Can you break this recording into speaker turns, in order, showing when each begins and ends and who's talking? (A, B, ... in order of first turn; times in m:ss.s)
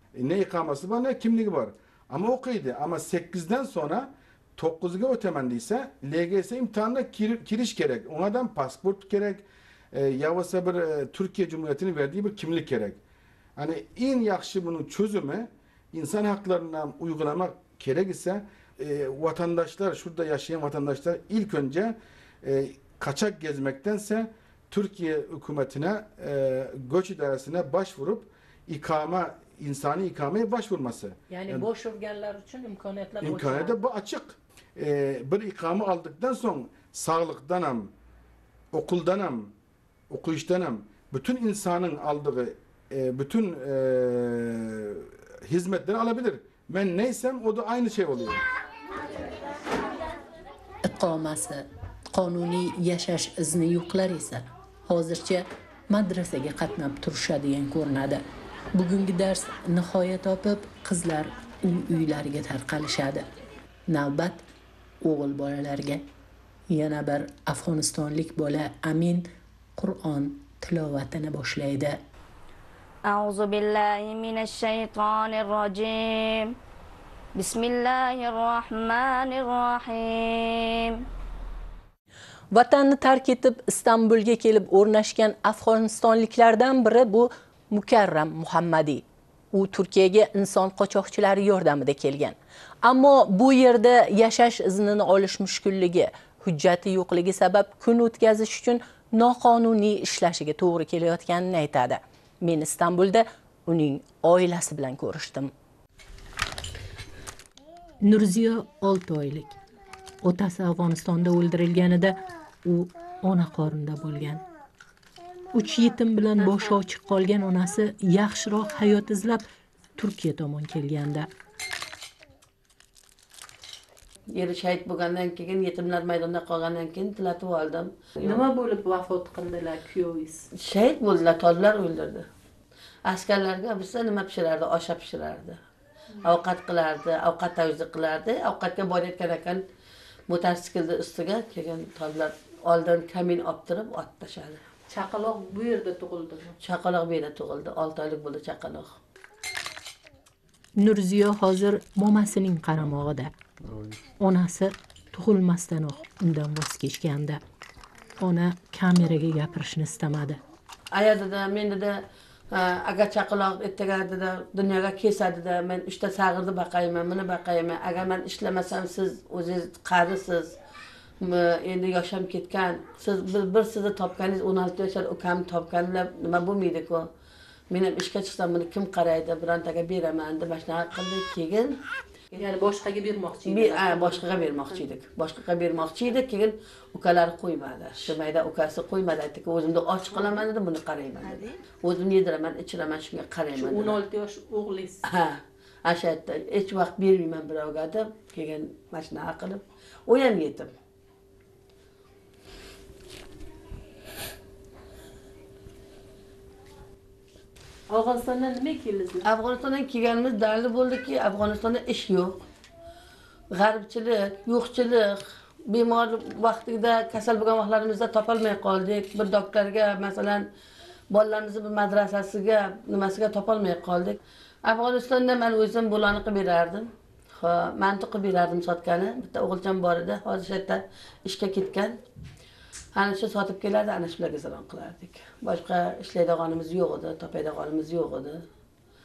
0:00.2-0:13.0 A
0:13.6-0:31.6 A
0:31.3-0:33.8 B
0:33.2-0:37.9 A
0:38.7-0:39.5 A
0:40.1-0:48.4 A
0:50.8-1:03.3 B
1:03.9-1:04.4 B
1:05.0-1:06.1 B
1:06.7-1:12.0 B
1:13.0-1:16.5 C
1:17.3-1:21.0 C
1:22.5-1:45.5 B
1:48.0-1:49.6 B
1:50.2-1:54.4 B
1:55.5-1:59.4 B
2:00.0-2:01.3 B
2:04.4-2:08.4 D
2:08.2-2:10.5 B
2:10.6-2:12.2 D
2:13.1-2:15.6 D
2:16.2-2:19.6 D
2:20.3-2:24.6 D
2:24.9-2:26.6 B
2:26.6-2:28.9 D
2:30.8-2:33.3 B
2:34.2-2:37.4 B
2:38.2-2:40.4 B
2:40.9-2:41.9 D
2:42.9-2:50.5 D
2:51.4-2:57.0 D
2:57.7-3:01.7 D
3:02.4-3:04.8 B
3:03.5-3:13.9 D
3:13.5-3:15.0 B
3:15.1-3:15.3 D
3:15.9-3:20.7 D
3:27.9-3:29.3 B
3:29.3-3:32.4 D
3:33.6-3:35.2 D
3:35.7-3:40.4 D
3:41.1-3:44.2 D
3:44.7-3:46.9 D
3:47.4-3:51.9 D
3:53.0-3:58.4 D